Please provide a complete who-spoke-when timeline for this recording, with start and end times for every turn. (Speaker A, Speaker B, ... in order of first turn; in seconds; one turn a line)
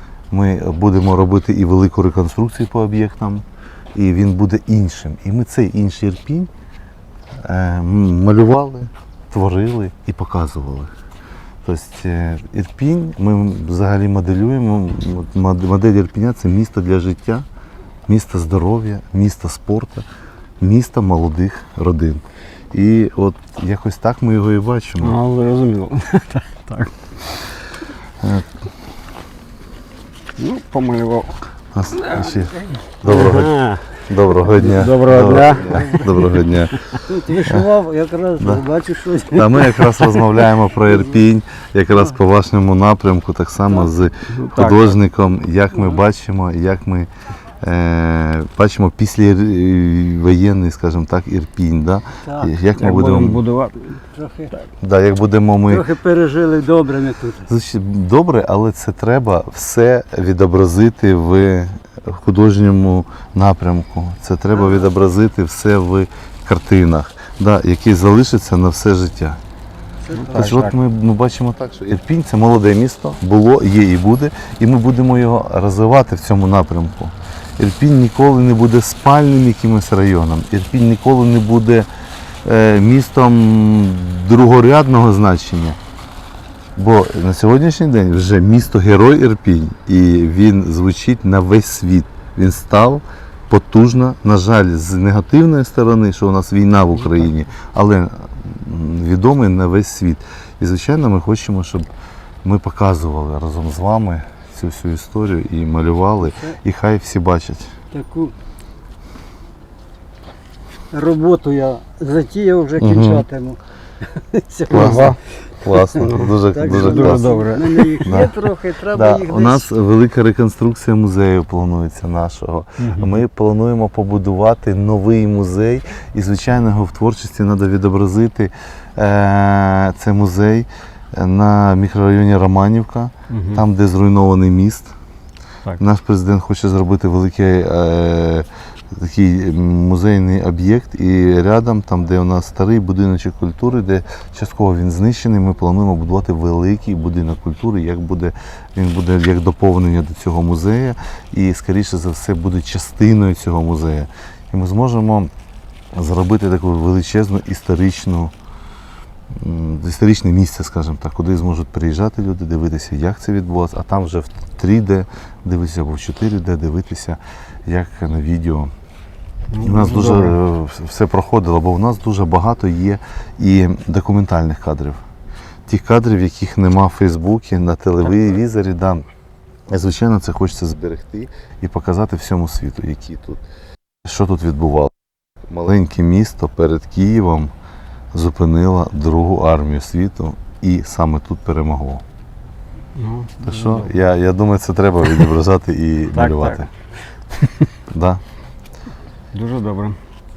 Speaker A: 0.3-3.4
Speaker A: 3.9-6.5
Speaker A: 7.4-10.9
Speaker A: 11.6-17.4
Speaker A: 18.1-20.1
Speaker A: 20.6-25.2
Speaker B: 25.0-26.9
Speaker A: 28.2-28.5
Speaker B: 30.4-31.4
Speaker A: 31.7-37.7
Speaker B: 33.0-33.8
Speaker B: 34.4-36.2
Speaker C: 35.6-36.0
Speaker C: 37.1-39.9
Speaker A: 38.4-38.6
Speaker A: 39.3-47.1
Speaker B: 44.3-44.9
Speaker A: 47.6-53.4
Speaker C: 52.2-52.5
Speaker B: 52.7-54.0
Speaker C: 54.1-54.5
Speaker A: 54.8-55.9
Speaker C: 55.7-57.5
Speaker A: 57.5-69.4
Speaker C: 64.5-64.8
Speaker C: 70.1-70.4
Speaker B: 70.1-70.8
Speaker A: 70.3-81.9
Speaker A: 82.4-85.8
Speaker A: 86.8-101.9
Speaker A: 102.4-107.7
Speaker C: 107.9-108.3
Speaker C: 110.9-113.6
Speaker A: 112.8-113.3
Speaker C: 114.1-115.1
Speaker B: 114.7-115.2
Speaker A: 114.7-118.3
Speaker C: 115.8-119.7
Speaker B: 116.1-118.1
Speaker A: 118.9-134.9
Speaker B: 122.8-123.1
Speaker B: 133.3-133.6
Speaker A: 135.8-155.3
Speaker A: 155.9-158.3
Speaker A: 159.3-168.7
Speaker B: 169.5-170.3
Speaker A: 169.6-175.0
Speaker A: 175.7-179.0
Speaker A: 179.7-183.4
Speaker A: 184.0-184.9
Speaker A: 185.5-187.5
Speaker A: 188.1-192.0
Speaker B: 192.9-193.9
Speaker A: 193.4-196.7
Speaker B: 196.1-196.7
Speaker A: 197.9-198.2
Speaker B: 199.3-200.0